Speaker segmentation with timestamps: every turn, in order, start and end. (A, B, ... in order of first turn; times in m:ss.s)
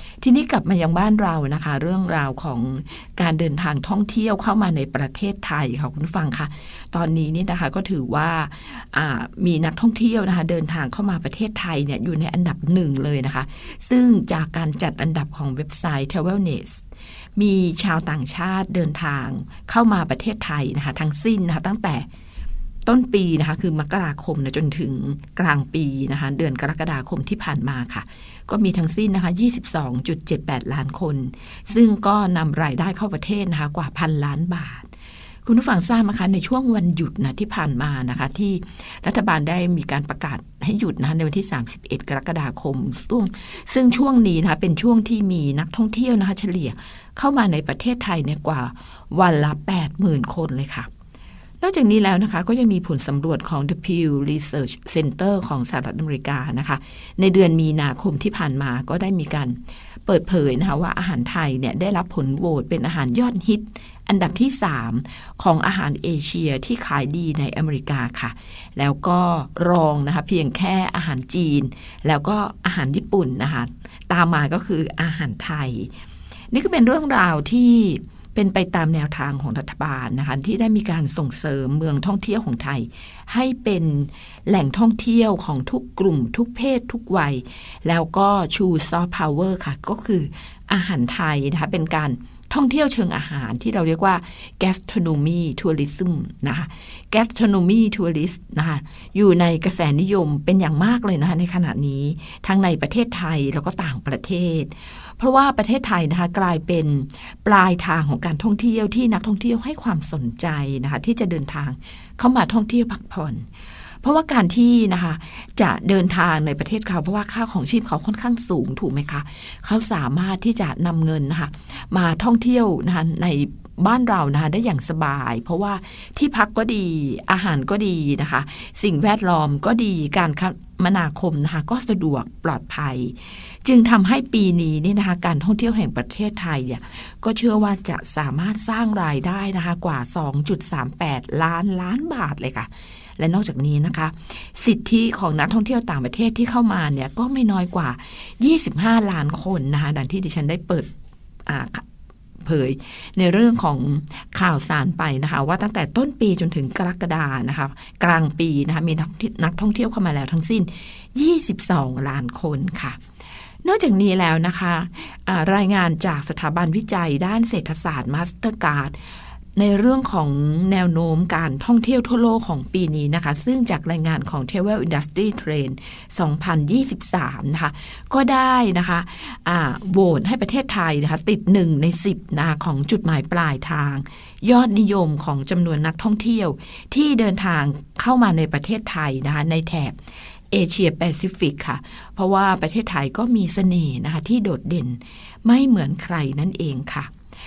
0:00.2-0:16.8 A
0:17.4-0:22.1 A
0:22.9-0:34.9 A
0:35.4-0:50.9 A
0:51.6-1:15.9 A
1:16.5-1:53.5 A
1:54.0-2:30.9 A
2:31.5-2:31.8 A
2:32.4-2:43.0 A
2:43.6-2:49.0 A
2:49.6-3:10.0 A
3:10.5-3:17.1 A